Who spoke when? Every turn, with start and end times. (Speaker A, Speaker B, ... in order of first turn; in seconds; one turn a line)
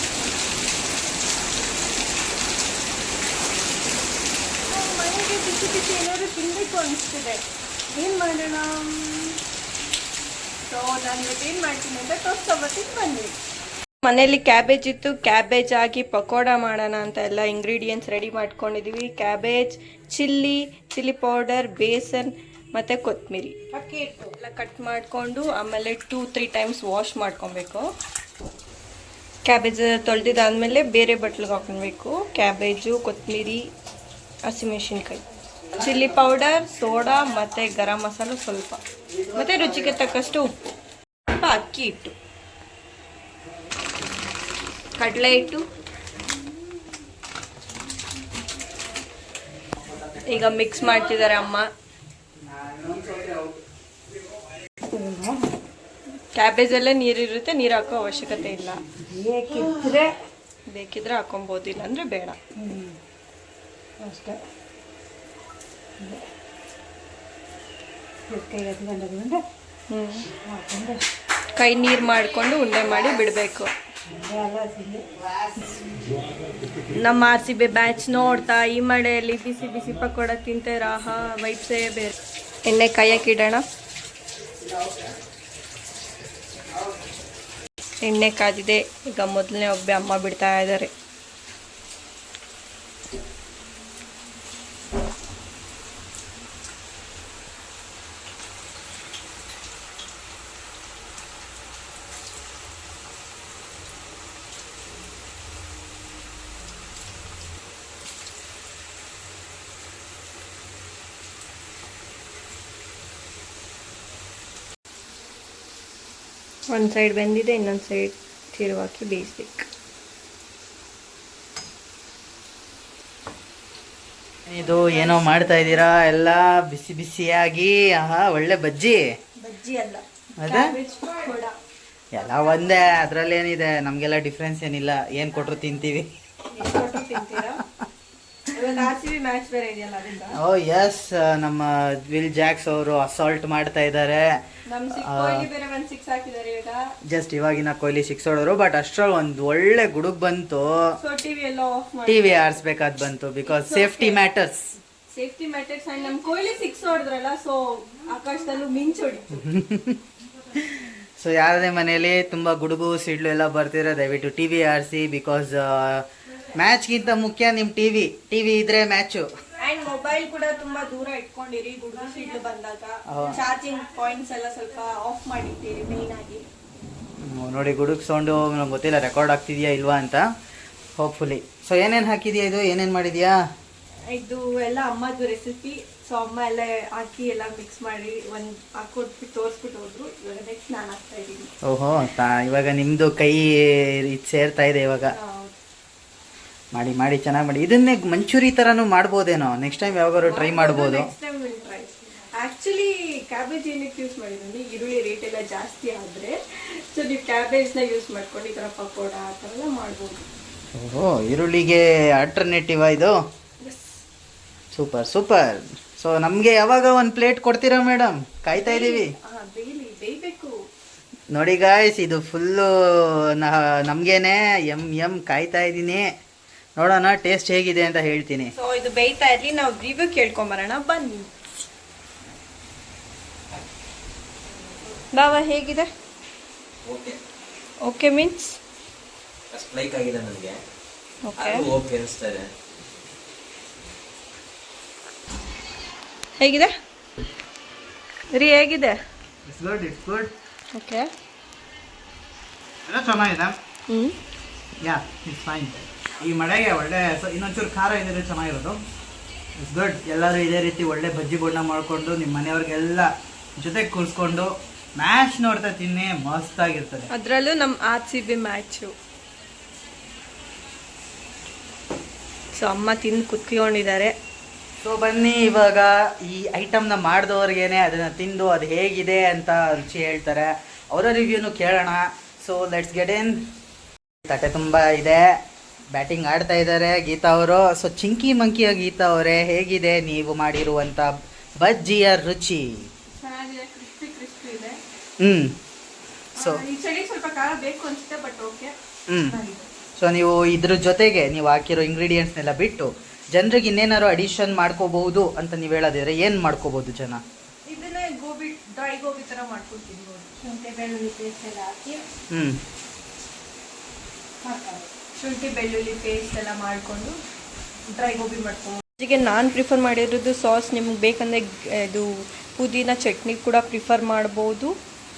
Speaker A: 4.7-9.4
Speaker A: 10.7-13.3
Speaker A: 14.0-23.6
Speaker B: 23.7-24.3
Speaker A: 24.3-27.9
Speaker A: 29.4-33.6
Speaker A: 34.4-35.2
Speaker A: 35.7-40.5
Speaker A: 41.3-42.1
Speaker A: 45.0-45.6
Speaker A: 50.2-51.6
Speaker C: 52.4-53.6
Speaker B: 54.9-55.5
Speaker A: 56.3-58.8
Speaker B: 59.0-60.1
Speaker A: 60.7-62.4
Speaker B: 62.6-63.0
Speaker B: 64.0-64.4
Speaker B: 66.0-66.2
Speaker B: 68.3-69.4
Speaker A: 69.9-70.3
Speaker B: 70.4-71.0
Speaker A: 71.5-73.7
Speaker B: 74.1-75.0
Speaker C: 75.3-75.7
Speaker A: 76.8-83.6
Speaker A: 88.0-90.9
Speaker A: 116.7-119.7
Speaker C: 124.5-129.0
Speaker A: 124.6-125.8
Speaker A: 129.4-131.5
Speaker C: 130.4-130.7
Speaker C: 132.1-136.1
Speaker A: 136.5-137.6
Speaker A: 138.5-140.4
Speaker C: 140.3-144.3
Speaker A: 144.7-146.8
Speaker C: 144.9-145.5
Speaker C: 147.1-150.8
Speaker A: 151.0-152.6
Speaker C: 152.1-154.7
Speaker A: 153.5-154.2
Speaker A: 155.1-159.5
Speaker C: 159.4-160.0
Speaker C: 160.5-169.3
Speaker A: 169.6-176.4
Speaker C: 173.1-173.4
Speaker C: 177.3-180.2
Speaker C: 181.0-183.3
Speaker A: 184.1-191.5
Speaker C: 191.6-195.1
Speaker A: 195.1-195.5
Speaker C: 196.7-201.1
Speaker A: 200.2-210.3
Speaker C: 210.7-213.1
Speaker A: 213.6-214.0
Speaker C: 214.7-219.1
Speaker A: 218.5-220.5
Speaker C: 221.3-226.0
Speaker C: 226.8-228.5
Speaker A: 228.5-231.3
Speaker A: 235.1-235.9
Speaker D: 236.8-237.2
Speaker A: 237.8-238.6
Speaker D: 239.5-240.6
Speaker A: 241.2-241.7
Speaker D: 241.3-242.5
Speaker A: 246.4-246.7
Speaker A: 248.3-249.0
Speaker C: 249.4-250.3
Speaker A: 250.7-251.1
Speaker C: 252.9-253.6
Speaker A: 253.9-254.2
Speaker C: 254.8-258.8
Speaker C: 259.6-267.1
Speaker A: 267.1-268.9
Speaker A: 272.6-274.1
Speaker C: 274.8-283.4
Speaker C: 284.2-285.2
Speaker C: 285.9-292.8
Speaker A: 293.1-294.8
Speaker C: 295.2-295.5
Speaker A: 296.3-298.7
Speaker C: 296.4-296.6
Speaker C: 299.1-299.4
Speaker A: 299.3-299.6
Speaker C: 300.0-307.2
Speaker A: 307.7-310.6
Speaker B: 310.5-312.0
Speaker C: 312.3-312.6
Speaker B: 314.4-314.9
Speaker A: 315.1-317.2
Speaker A: 317.9-324.7